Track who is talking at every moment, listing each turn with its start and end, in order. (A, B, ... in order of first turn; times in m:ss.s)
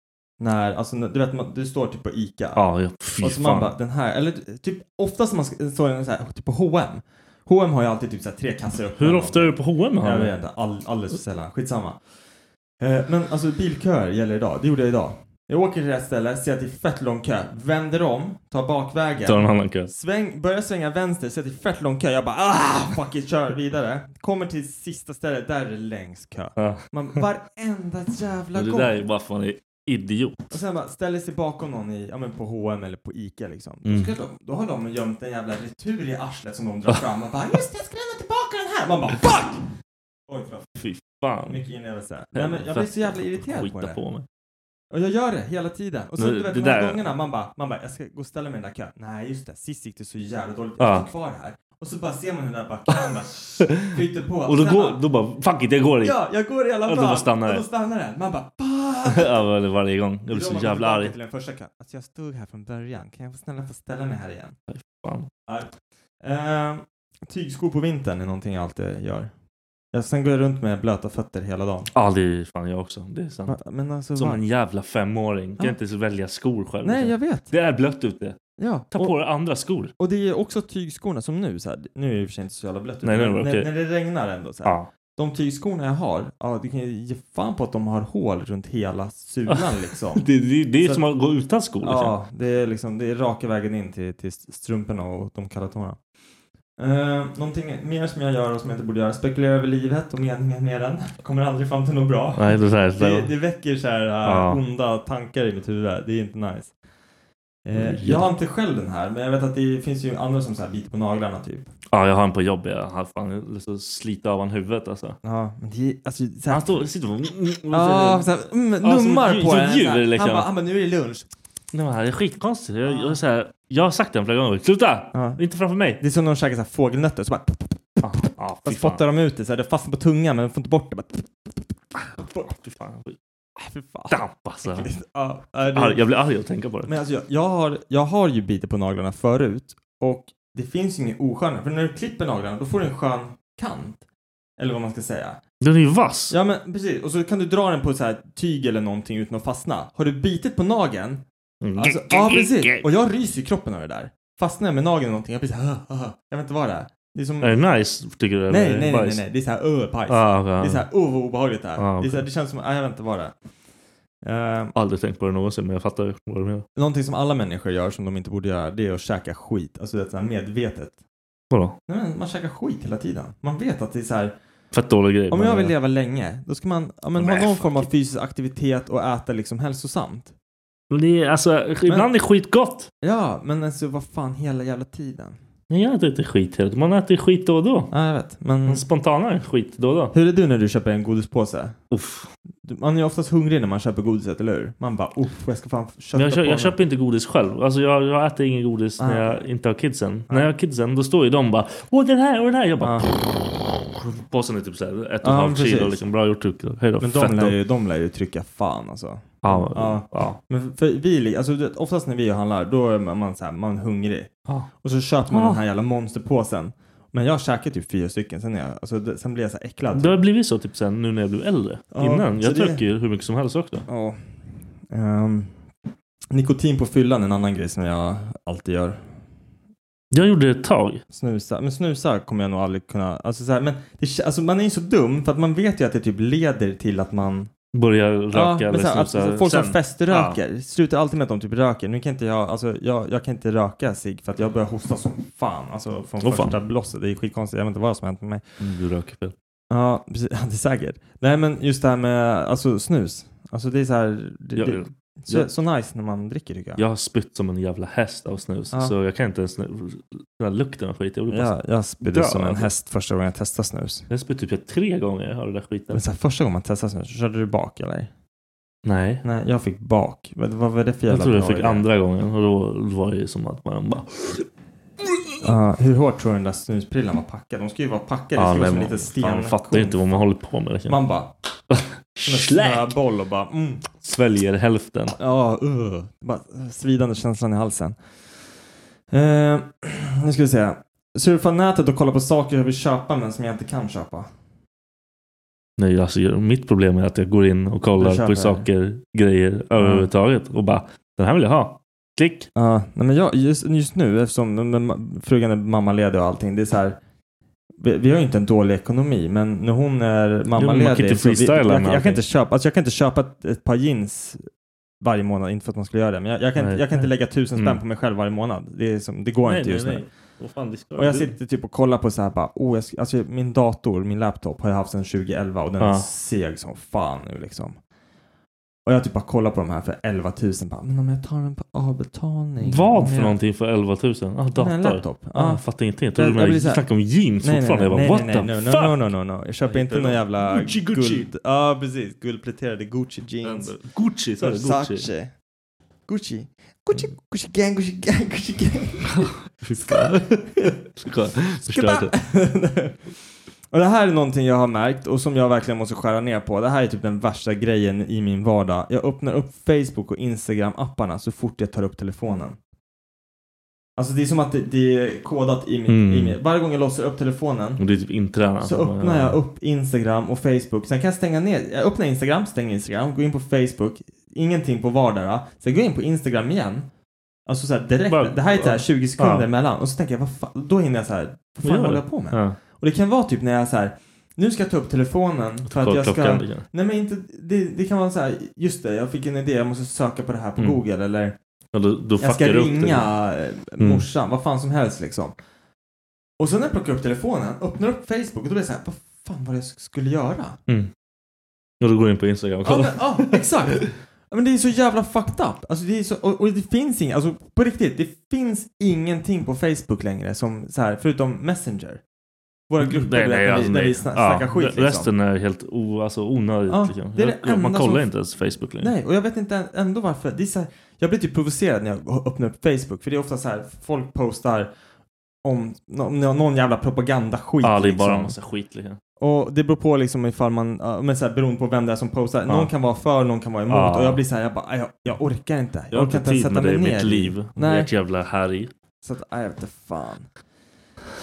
0:00.4-0:02.7 A
0:02.6-0:03.7 B
0:03.2-0:12.0 A
0:09.0-0:10.3 B
0:12.8-0:29.0 A
0:19.3-0:19.9 B
0:26.6-0:27.2 B
0:28.6-0:30.5 B
0:30.5-0:39.7 A
0:33.8-0:34.1 B
0:40.3-0:40.7 A
0:40.8-0:41.6 B
0:41.5-0:44.0 A
0:42.3-0:44.3 B
0:44.9-0:55.0 A
0:46.2-0:47.0 B
0:50.8-0:51.1 B
0:53.6-0:54.0 B
0:54.5-0:56.2 B
0:56.0-0:59.4 A
0:56.8-0:57.6 B
0:59.1-1:01.1 B
1:00.3-1:04.6 A
1:04.7-1:05.3 B
1:05.5-1:09.3 A
1:09.9-1:11.9 A
1:11.9-1:13.6 B
1:13.5-1:14.4 A
1:14.2-1:18.4 B
1:16.8-1:17.5 A
1:18.6-1:19.2 A
1:18.9-1:19.9 B
1:20.0-1:30.3 A
1:23.0-1:23.7 B
1:24.6-1:24.9 B
1:29.5-1:32.2 B
1:31.8-1:36.0 A
1:36.8-1:46.7 A
1:42.4-1:43.3 B
1:44.2-1:44.6 B
1:47.6-1:51.7 A
1:47.8-1:48.3 B
1:51.9-1:55.2 B
1:55.2-1:56.8 A
1:56.5-1:58.3 B
1:57.7-2:01.3 A
1:58.8-2:00.5 B
2:01.7-2:06.0 B
2:02.9-2:03.2 A
2:05.1-2:05.4 A
2:06.0-2:08.0 A
2:08.0-2:09.0 B
2:08.6-2:11.6 A
2:12.0-2:13.2 B
2:12.2-2:12.5 A
2:13.6-2:16.0 A
2:14.1-2:14.9 B
2:15.7-2:16.9 B
2:16.9-2:24.0 A
2:24.6-2:25.4 A
2:25.6-2:26.4 B
2:26.3-2:31.2 A
2:31.6-2:32.9 B
2:31.8-2:37.5 A
2:37.4-2:39.2 B
2:38.5-2:43.4 A
2:40.1-2:40.9 B
2:41.8-2:42.3 B
2:44.2-2:44.7 A
2:44.8-2:46.7 B
2:46.8-2:51.0 A
2:51.5-2:51.8 B
2:51.9-2:54.4 A
2:54.7-2:55.7 B
2:55.3-3:00.3 A
2:57.2-2:57.9 B
3:00.9-3:02.9 B
3:01.9-3:02.1 A
3:03.0-3:05.4 A
3:05.7-3:07.9 B
3:07.9-3:08.8 A
3:08.7-3:10.1 B
3:10.1-3:11.8 A
3:11.9-3:12.3 B
3:12.6-3:16.8 A
3:16.1-3:27.6 B
3:19.0-3:19.4 A
3:22.8-3:23.1 A
3:25.2-3:26.0 A
3:27.0-3:40.2 A
3:29.4-3:30.4 B
3:35.3-3:35.6 B
3:39.9-3:43.9 B
3:41.9-3:42.8 A
3:43.9-3:44.2 A
3:44.9-3:45.6 A
3:46.3-3:49.0 A
3:50.1-3:51.0 B
3:51.1-3:57.5 A
3:57.7-4:00.4 B
3:58.3-4:08.5 A
4:06.2-4:06.6 B
4:08.6-4:09.4 B
4:09.7-4:16.8 A
4:14.6-4:15.5 B
4:16.8-4:22.7 B
4:21.3-4:24.1 A
4:24.1-4:26.0 B
4:25.9-4:28.1 A
4:28.8-4:29.2 B
4:29.2-4:31.9 A
4:31.1-4:34.5 B
4:35.4-4:40.3 A
4:38.4-4:41.0 B
4:40.9-4:41.3 A
4:41.7-4:43.0 B
4:42.2-4:43.9 A
4:44.0-4:45.2 B
4:45.2-4:48.0 A
4:49.1-4:54.3 A
4:55.8-5:02.5 B
4:58.0-4:58.7 A
4:59.8-5:00.1 A
5:02.6-5:07.0 A
5:07.8-5:14.5 A
5:10.6-5:12.2 B
5:15.0-5:20.1 A
5:16.6-5:17.8 B
5:19.4-5:21.4 B
5:21.0-5:27.8 A
5:25.8-5:26.1 B
5:28.9-5:33.4 A
5:32.6-5:39.0 B
5:34.6-5:36.9 A
5:37.4-5:43.8 A
5:39.6-5:41.3 B
5:43.4-5:45.1 B
5:44.4-5:45.3 A
5:46.1-5:50.7 A
5:49.1-5:52.1 B
5:51.6-5:53.0 A
5:53.7-6:02.6 A
6:04.0-6:07.8 A
6:05.9-6:06.4 B
6:07.8-6:09.4 B
6:08.6-6:16.9 A
6:17.5-6:31.4 A
6:18.1-6:19.5 B
6:21.6-6:22.6 B
6:25.7-6:26.7 B
6:31.7-6:33.1 B
6:32.2-6:35.4 A
6:33.8-6:34.1 B
6:36.4-6:40.6 A
6:41.8-6:43.9 B
6:42.6-6:52.0 A
6:52.7-6:55.1 A
6:52.8-6:58.9 B
6:56.7-6:58.1 A
6:58.8-7:04.7 A
7:05.4-7:08.4 A
7:07.6-7:09.0 B
7:09.2-7:17.9 A
7:13.7-7:14.2 B
7:15.9-7:18.7 B
7:19.0-7:20.3 A